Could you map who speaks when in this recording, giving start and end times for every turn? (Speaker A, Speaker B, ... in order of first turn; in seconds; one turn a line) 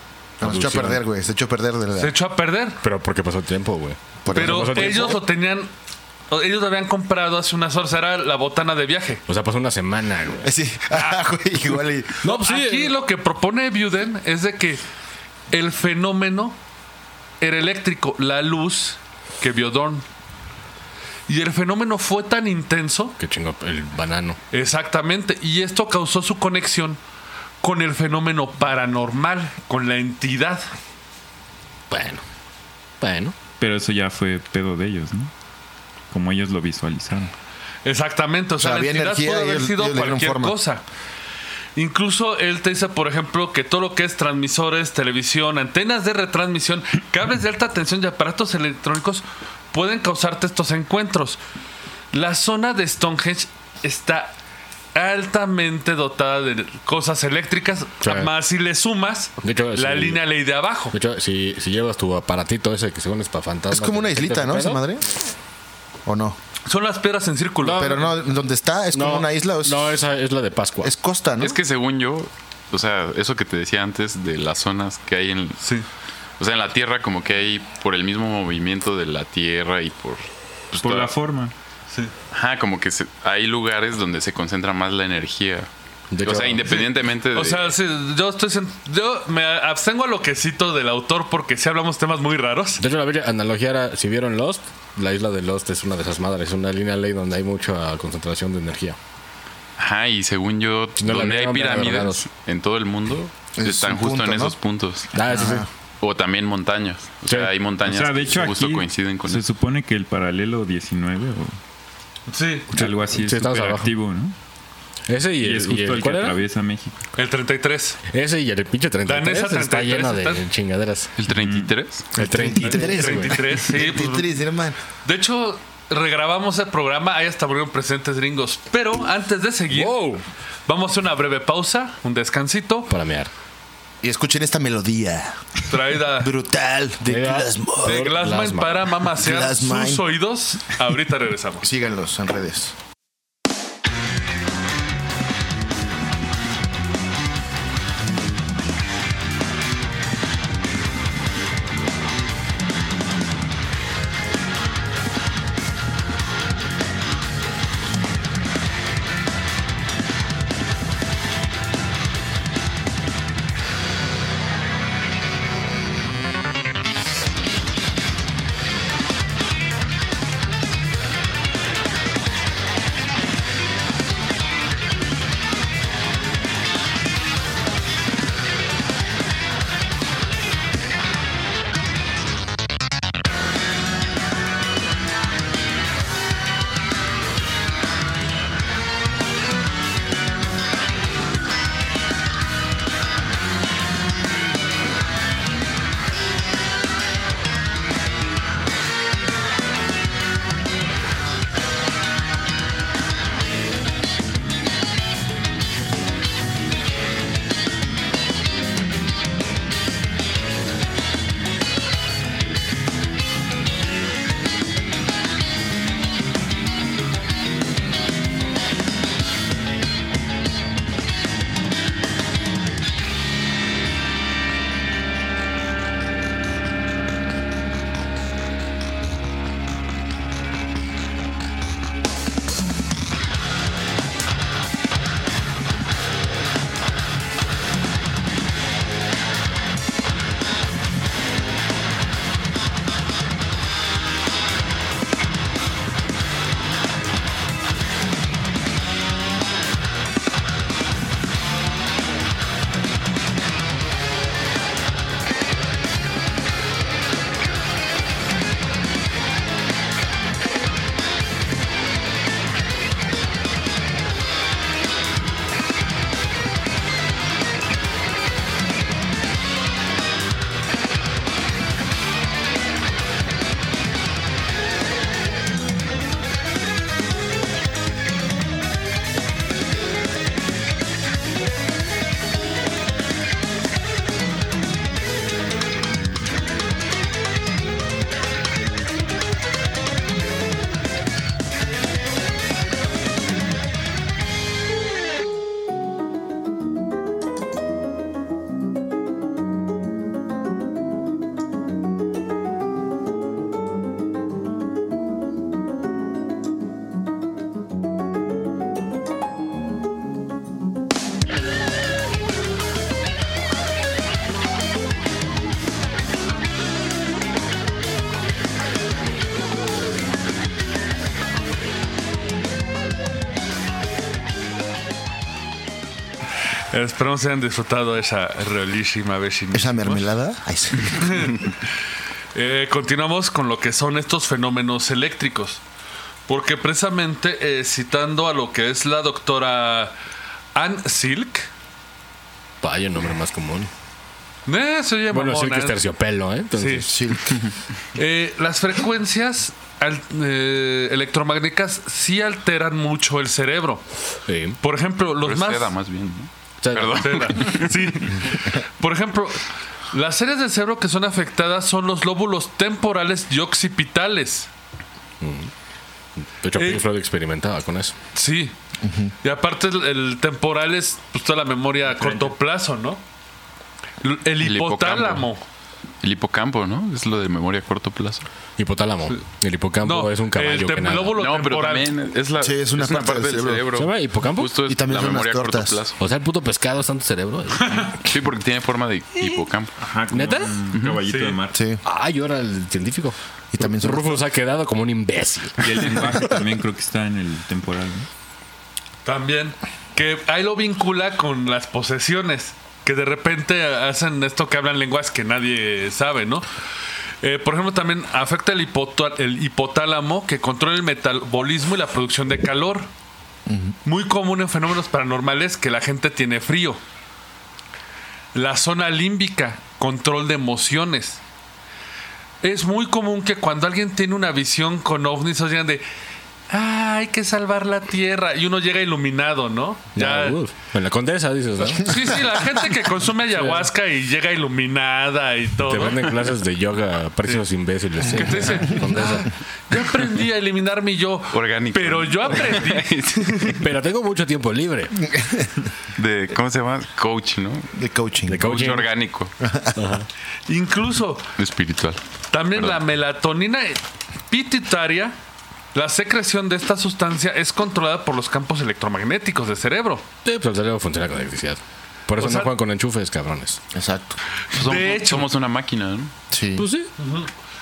Speaker A: 0.4-2.1
Speaker B: 0.4-1.0
Speaker C: 2.0-2.8
Speaker B: 2.8-5.2
Speaker A: 4.2-5.2
Speaker C: 4.3-5.7
Speaker C: 6.3-9.2
Speaker B: 9.3-10.5
Speaker A: 10.4-12.2
Speaker B: 12.2-12.9
Speaker C: 12.2-14.8
Speaker C: 15.5-16.6
Speaker C: 17.4-20.0
Speaker C: 21.3-23.1
Speaker B: 23.2-24.4
Speaker C: 24.5-27.0
Speaker C: 27.6-30.7
Speaker B: 31.9-32.2
Speaker B: 33.0-33.3
Speaker D: 33.6-35.3
Speaker D: 36.1-37.3
Speaker C: 37.8-40.8
Speaker A: 38.6-40.6
Speaker C: 41.8-51.4
Speaker C: 52.1-54.3
Speaker C: 54.9-60.9
Speaker B: 58.0-58.3
Speaker B: 59.4-60.2
Speaker B: 60.9-64.8
Speaker A: 63.7-65.0
Speaker A: 66.0-66.4
Speaker C: 66.7-68.1
Speaker B: 67.6-68.0
Speaker A: 67.7-69.9
Speaker B: 68.9-70.9
Speaker A: 70.8-71.6
Speaker E: 71.4-75.6
Speaker C: 75.6-75.8
Speaker E: 76.4-81.1
Speaker D: 80.8-81.5
Speaker E: 82.3-85.7
Speaker B: 86.1-86.8
Speaker E: 86.2-87.7
Speaker C: 87.3-92.8
Speaker B: 92.8-99.0
Speaker E: 99.8-105.1
Speaker B: 101.0-102.2
Speaker A: 103.6-104.5
Speaker B: 105.1-105.7
Speaker A: 105.2-105.7
Speaker E: 106.0-109.4
Speaker D: 107.8-111.6
Speaker C: 112.3-112.7
Speaker D: 112.7-114.3
Speaker B: 112.7-113.9
Speaker B: 115.1-116.4
Speaker D: 115.4-117.0
Speaker C: 117.2-118.0
Speaker B: 118.1-121.1
Speaker C: 119.0-120.4
Speaker E: 121.2-122.0
Speaker D: 121.3-121.7
Speaker B: 122.1-123.4
Speaker A: 122.1-124.8
Speaker C: 122.6-124.3
Speaker C: 125.0-130.0
Speaker B: 129.7-130.2
Speaker C: 130.7-132.9
Speaker B: 132.9-133.3
Speaker A: 134.0-135.5
Speaker C: 135.7-136.3
Speaker A: 136.1-138.1
Speaker B: 137.0-138.9
Speaker C: 137.8-141.7
Speaker A: 139.2-140.0
Speaker A: 141.6-142.7
Speaker C: 326.7-330.0
Speaker A: 329.5-331.4
Speaker C: 330.9-331.5
Speaker C: 332.3-335.6
Speaker C: 336.3-339.9
Speaker C: 340.5-341.5
Speaker B: 342.6-343.7
Speaker C: 344.4-345.8
Speaker B: 345.1-347.0
Speaker C: 346.5-346.9
Speaker A: 346.9-347.4
Speaker C: 347.9-353.8
Speaker B: 354.2-354.6
Speaker C: 354.6-355.7
Speaker E: 355.2-358.0
Speaker B: 356.6-357.4
Speaker C: 357.0-364.5
Speaker B: 365.2-365.5
Speaker B: 366.4-367.9
Speaker C: 366.5-366.8
Speaker C: 368.1-368.5
Speaker A: 368.8-369.1
Speaker C: 369.2-373.0
Speaker C: 374.0-375.4
Speaker E: 374.4-375.3
Speaker E: 376.0-378.2
Speaker B: 378.6-381.2
Speaker C: 379.8-381.9
Speaker E: 381.1-386.0
Speaker A: 382.4-383.7
Speaker B: 383.7-384.5
Speaker A: 384.6-385.8
Speaker B: 386.0-387.9
Speaker C: 387.6-387.9
Speaker E: 388.0-389.8
Speaker D: 389.8-391.6
Speaker B: 390.1-390.5
Speaker E: 390.7-391.0
Speaker C: 391.1-391.4
Speaker A: 391.5-391.8
Speaker B: 391.8-396.2
Speaker A: 393.5-394.2
Speaker D: 395.6-398.1
Speaker C: 399.0-406.4
Speaker C: 407.2-412.9
Speaker A: 413.5-413.7
Speaker C: 413.8-416.8
Speaker C: 418.3-421.2
Speaker C: 422.4-425.8
Speaker C: 426.5-430.4
Speaker B: 429.9-432.2
Speaker C: 431.7-436.1
Speaker B: 433.3-433.7
Speaker B: 435.6-439.3
Speaker C: 438.1-443.6
Speaker E: 441.3-443.5
Speaker B: 443.5-445.0
Speaker A: 445.1-445.5
Speaker E: 445.9-447.7
Speaker A: 447.7-448.5
Speaker B: 448.2-448.9
Speaker E: 448.4-449.3
Speaker A: 449.4-449.8
Speaker B: 449.7-450.1
Speaker C: 450.5-451.3
Speaker E: 451.4-452.0
Speaker C: 452.3-455.1
Speaker E: 452.5-452.8
Speaker C: 455.7-460.0
Speaker B: 460.2-463.6
Speaker C: 462.2-462.5
Speaker A: 463.7-464.2
Speaker C: 464.5-465.3
Speaker E: 464.5-466.1
Speaker A: 466.3-466.7
Speaker B: 466.6-466.9
Speaker C: 467.0-467.3